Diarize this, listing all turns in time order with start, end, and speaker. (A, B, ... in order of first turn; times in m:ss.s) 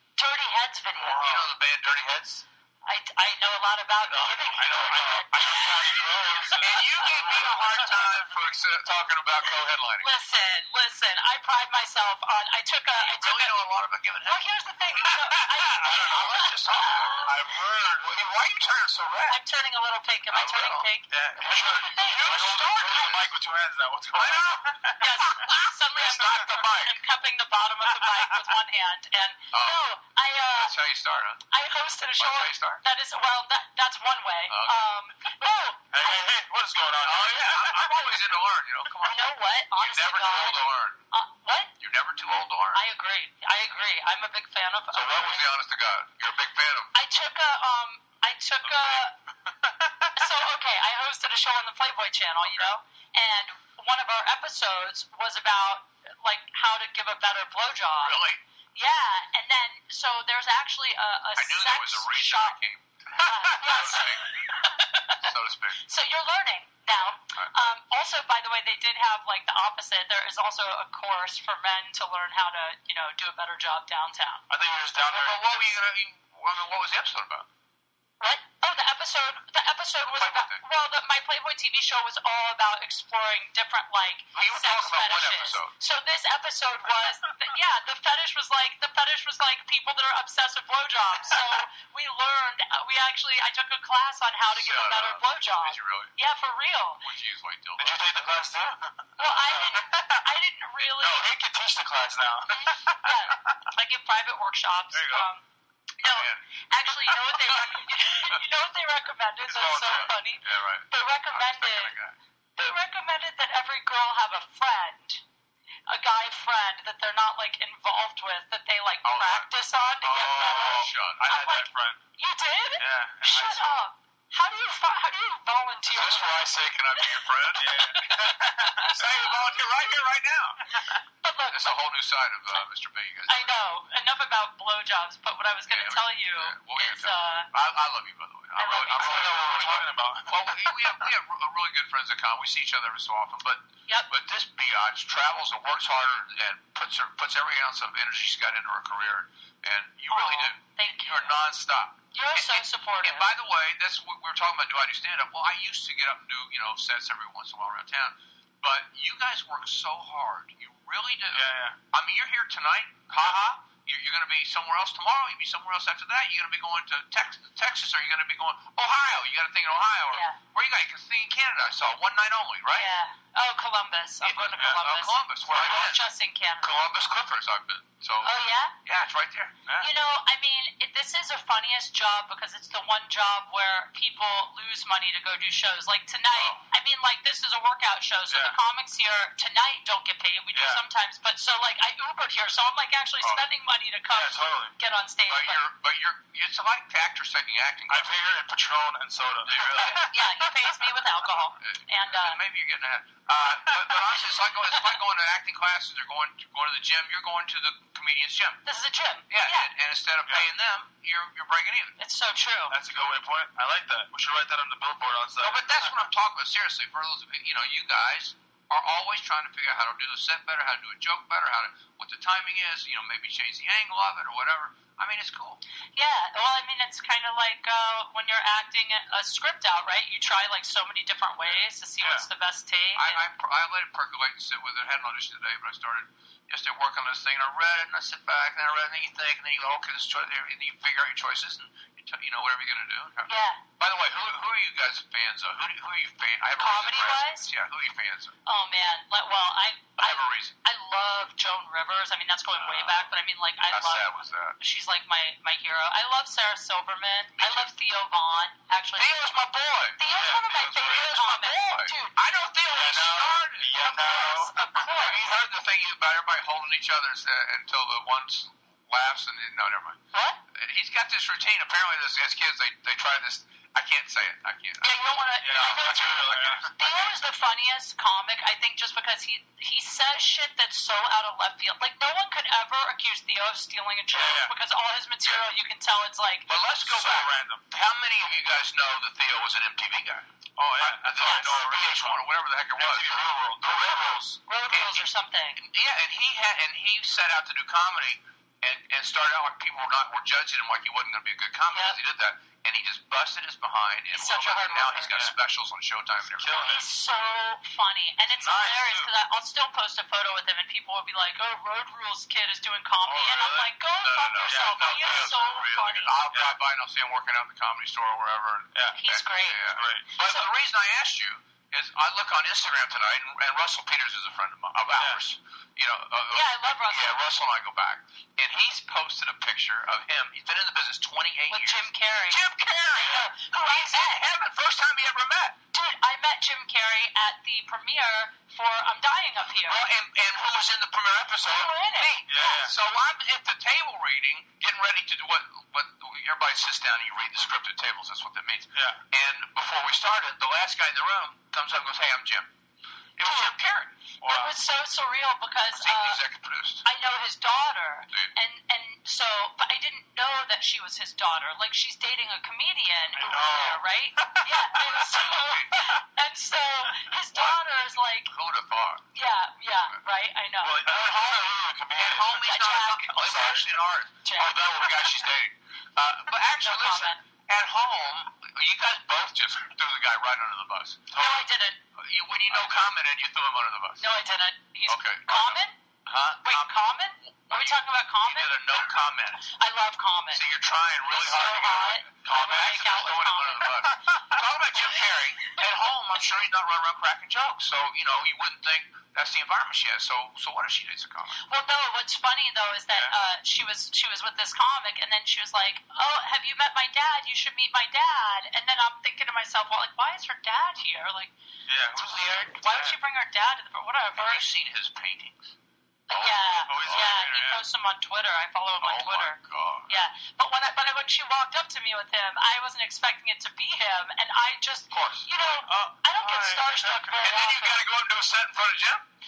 0:00.2-0:01.3 A
0:01.0-0:01.5 B
0:01.0-0:02.4 C
0:02.8-0:08.2 A
0:04.1-0:05.9 C
0:04.6-0:07.9 B
0:06.5-0:10.1 C
0:10.0-0:13.6 A
0:13.0-0:14.4 C
0:14.2-0:17.4 A
0:15.0-0:17.3 C
0:15.5-0:18.2 B
0:18.0-0:19.4 C
0:19.3-0:23.1 A
0:20.3-0:20.9 C
0:21.1-0:25.2 B
0:21.7-0:23.3 C
0:24.1-0:27.0 C
0:25.0-0:30.7 A
0:26.0-0:26.6 B
0:28.0-0:28.5 B
0:29.5-0:29.9 C
0:30.4-0:31.4 C
0:31.5-0:36.2 A
0:32.2-0:32.8 C
0:34.5-0:34.9 C
0:35.9-0:38.0 B
0:37.0-0:41.0 C
0:39.0-0:41.7 A
0:41.8-0:42.8 C
0:42.7-0:45.5 A
0:44.9-0:46.9 C
0:46.9-0:49.2 A
0:50.2-0:58.2 A
0:52.4-0:52.7 C
0:58.0-0:58.4 C
0:58.8-1:02.6 A
1:01.4-1:04.6 C
1:03.2-1:05.3 A
1:05.2-1:05.8 C
1:05.8-1:14.4 A
1:14.5-1:15.5 B
1:15.1-1:17.5 C
1:18.2-1:37.0 A
1:20.1-1:20.6 C
1:24.4-1:25.7 C
1:34.5-1:36.1 C
1:37.0-1:38.2 C
1:37.8-1:40.3 B
1:39.2-1:41.3 A
1:40.9-1:43.6 B
1:42.5-1:45.4 A
1:44.9-1:45.3 B
1:46.0-1:51.9 A
1:46.0-1:48.4 C
1:49.5-1:50.1 B
1:49.6-1:52.2 C
1:52.6-1:55.2 A
1:55.9-2:07.2 A
1:59.0-2:01.3 C
2:00.1-2:02.0 B
2:02.8-2:03.8 B
2:05.9-2:10.8 C
2:07.5-2:09.6 B
2:07.8-2:09.1 A
2:11.2-2:11.8 A
2:11.5-2:13.6 C
2:13.3-2:17.5 A
2:15.7-2:52.9 C
2:18.6-2:19.4 A
2:18.9-2:20.9 B
2:30.1-2:31.4 A
2:32.1-2:33.3 A
2:41.3-2:41.8 B
2:50.1-2:50.4 A
2:52.7-2:56.8 A
2:54.2-2:56.0 C
2:55.5-2:56.0 B
2:56.6-2:59.6 C
2:58.2-2:58.8 A
2:59.8-3:15.6 A
3:06.3-3:06.6 C
3:08.3-3:08.6 B
3:10.5-3:10.8 B
3:14.1-3:14.8 B
3:15.3-3:18.1 C
3:17.9-3:20.2 B
3:19.4-3:20.2 C
3:19.7-3:22.4 A
3:21.6-3:28.6 C
3:28.6-3:29.7 A
3:29.3-3:32.0 C
3:32.0-3:32.8 A
3:32.7-3:36.0 B
3:35.4-3:45.6 C
3:46.0-3:53.2 A
3:53.0-4:08.4 C
4:03.3-4:03.6 A
4:06.6-4:07.5 A
4:08.5-4:14.1 A
4:10.0-4:10.6 C
4:12.5-4:13.1 C
4:13.7-4:14.6 C
4:14.6-4:19.2 A
4:17.4-4:17.7 C
4:19.0-4:23.8 C
4:20.0-4:22.2 A
4:20.1-4:20.8 B
4:22.7-4:24.7 B
4:23.7-4:25.3 A
4:24.8-4:30.0 C
4:30.1-4:30.4 A
4:30.5-4:37.0 C
4:34.8-4:46.5 A
4:35.4-4:36.7 B
4:44.1-4:44.5 B
4:46.5-4:50.3 C
4:46.8-4:47.6 B
4:50.6-4:52.2 B
4:50.8-4:54.1 C
4:51.2-4:51.6 A
4:52.8-4:54.4 B
4:53.7-4:55.6 A
4:54.7-5:06.7 C
5:01.7-5:02.0 A
5:04.1-5:05.1 A
5:06.3-5:06.9 B
5:06.5-5:16.2 A
5:08.2-5:09.1 B
5:13.0-5:13.7 B
5:14.0-5:35.6 C
5:14.4-5:15.5 B
5:16.3-5:16.6 B
5:18.7-5:19.0 B
5:18.9-5:20.5 A
5:19.7-5:20.1 B
5:24.9-5:25.2 B
5:26.3-5:27.2 A
5:31.5-5:32.4 A
5:32.9-5:34.2 A
5:35.7-5:39.8 A
5:39.6-5:52.5 C
5:41.4-5:42.1 A
5:42.3-5:42.8 B
5:48.7-5:49.0 B
5:53.2-5:54.0 C
5:53.2-5:53.6 A
5:54.2-5:54.6 B
5:54.2-5:56.2 A
5:55.7-5:56.8 C
5:56.8-6:08.3 A
6:03.2-6:04.8 B
6:04.8-6:06.0 C
6:07.3-6:07.6 C
6:08.3-6:09.1 C
6:09.1-6:11.0 A
6:10.6-6:12.6 B
6:12.0-6:21.2 C
6:12.4-6:13.6 A
6:13.2-6:13.6 B
6:14.2-6:14.9 A
6:16.6-6:17.2 A
6:21.1-6:21.4 B
6:21.1-6:21.8 A
6:22.0-6:24.0 C
6:24.0-6:25.8 A
6:24.9-6:29.5 C
6:26.4-6:28.6 A
6:29.5-6:30.4 A
6:30.3-6:41.4 C
6:31.1-6:33.8 A
6:41.4-6:51.3 A
6:51.7-6:53.0 B
6:51.9-6:52.6 C
6:52.5-6:54.4 A
6:54.2-6:55.6 C
6:56.1-7:07.8 A
6:56.1-6:57.3 C
6:56.7-6:57.6 B
6:58.8-7:00.0 C
7:04.9-7:07.2 B
7:07.2-7:09.0 C